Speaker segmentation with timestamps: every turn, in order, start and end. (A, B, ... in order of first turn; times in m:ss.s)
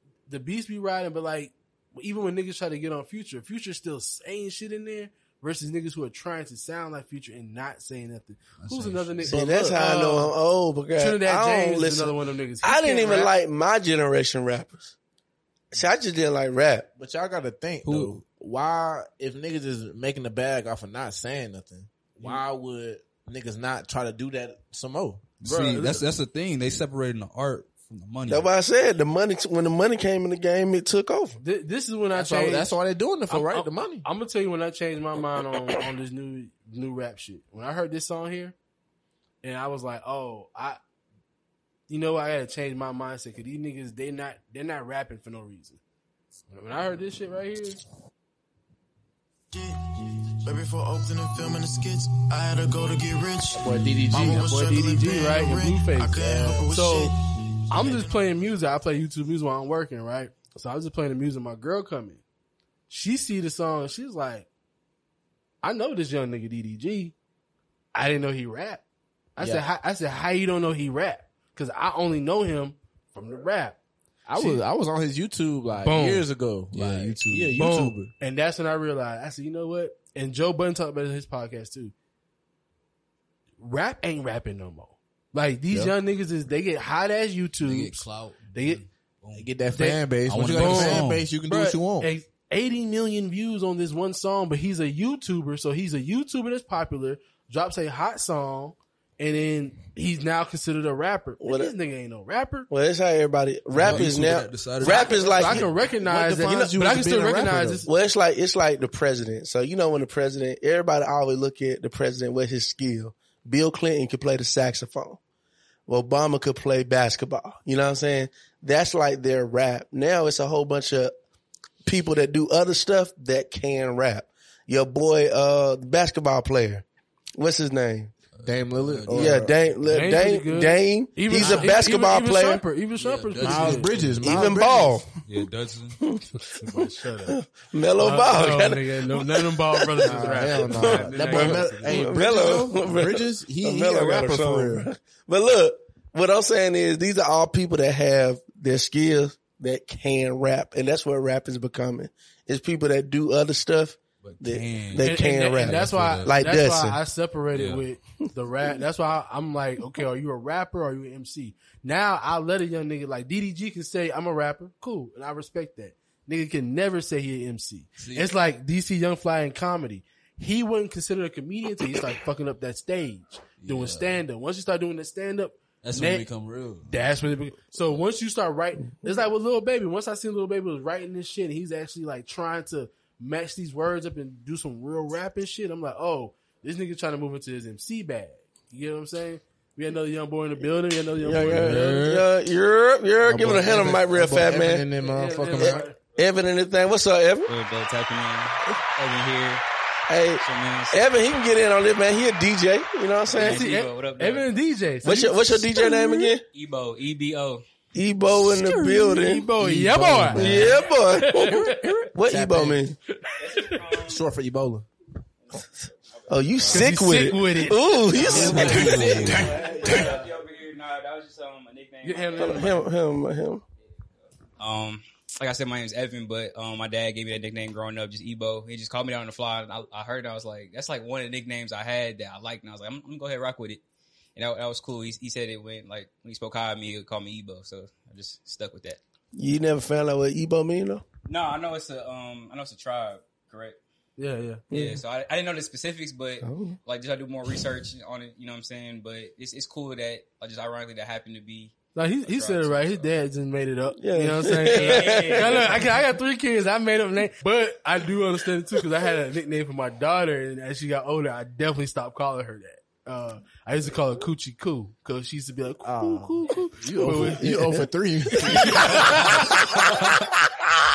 0:00.3-0:10.3 A
0:08.6-0:09.3 B
0:09.3-0:09.8 C
0:09.3-0:14.9 D
0:11.0-0:13.3 A
0:15.7-0:16.9 D
0:17.0-0:25.2 C
0:17.8-0:18.2 B
0:25.4-0:28.5 B
0:25.4-0:26.0 A
0:28.3-0:31.4 D
0:31.4-0:32.7 A
0:32.1-0:34.0 C
0:33.3-0:38.5 A
0:39.4-0:40.8 A
0:41.9-0:45.8 A
0:46.5-0:47.8 A
0:49.5-0:57.2 E
0:53.5-0:54.4 C
0:54.1-0:56.2 A
0:56.1-0:56.7 C
0:56.7-0:57.1 A
0:57.7-1:02.2 A
0:57.7-0:58.3 E
1:02.9-1:04.5 A
1:05.6-1:07.1 A
1:07.9-1:08.8 A
1:09.4-1:13.8 A
1:09.4-1:09.6 C
1:14.2-1:18.1 C
1:14.3-1:14.6 A
1:15.8-1:16.2 A
1:16.7-1:17.6 B
1:17.6-1:21.9 A
1:23.6-1:28.8 A
1:25.7-1:26.0 C
1:27.6-1:29.5 B
1:29.3-1:32.1 C
1:29.7-1:42.7 A
1:30.2-1:31.3 B
1:41.4-1:41.7 D
1:42.7-1:45.7 D
1:43.8-1:45.7 B
1:43.8-1:44.1 A
1:44.9-1:47.9 A
1:46.0-1:47.8 C
1:47.8-1:55.2 D
1:55.9-2:01.1 D
2:01.8-2:06.8 D
2:07.3-2:08.1 D
2:08.4-2:09.5 B
2:08.4-2:09.5 C
2:09.1-2:12.6 D
2:09.8-2:13.9 A
2:11.4-2:11.6 C
2:13.0-2:14.5 B
2:13.4-2:15.0 C
2:14.2-2:15.1 D
2:15.2-2:16.0 B
2:16.0-2:37.0 D
2:16.5-2:17.4 A
2:18.0-2:22.4 A
2:20.0-2:24.9 C
2:20.8-2:21.6 B
2:34.2-2:36.3 B
2:35.0-2:56.2 A
2:37.5-2:37.8 B
2:48.0-2:48.3 B
2:53.6-2:54.2 B
2:55.8-2:57.2 B
2:56.9-3:12.0 A
3:11.2-3:14.9 D
3:11.4-3:12.2 B
3:13.2-3:15.8 C
3:13.4-3:13.8 B
3:15.0-3:16.0 A
3:15.6-3:17.5 D
3:17.5-3:19.6 F
3:20.1-3:23.7 D
3:20.4-3:21.0 F
3:23.3-3:24.5 F
3:23.4-3:26.2 A
3:25.0-3:26.4 D
3:26.5-3:27.6 F
3:27.9-3:29.4 D
3:28.4-3:31.9 A
3:29.6-3:32.8 C
3:30.4-3:33.0 D
3:33.4-3:34.2 F
3:34.0-3:34.8 C
3:36.3-3:36.8 F
3:36.3-3:39.1 D
3:36.7-3:39.0 A
3:38.1-3:42.8 F
3:38.2-3:39.8 C
3:38.5-3:39.4 B
3:42.0-3:42.8 A
3:42.4-3:43.6 D
3:44.6-3:53.8 F
3:54.4-3:59.0 F
3:59.3-4:01.0 D
4:01.2-4:03.8 F
4:04.2-4:04.6 A
4:04.7-4:05.0 D
4:04.7-4:11.8 F
4:06.4-4:06.8 D
4:11.9-4:27.8 A
4:12.3-4:13.0 F
4:14.0-4:15.6 D
4:14.7-4:15.9 F
4:25.8-4:30.0 C
4:28.4-4:29.6 A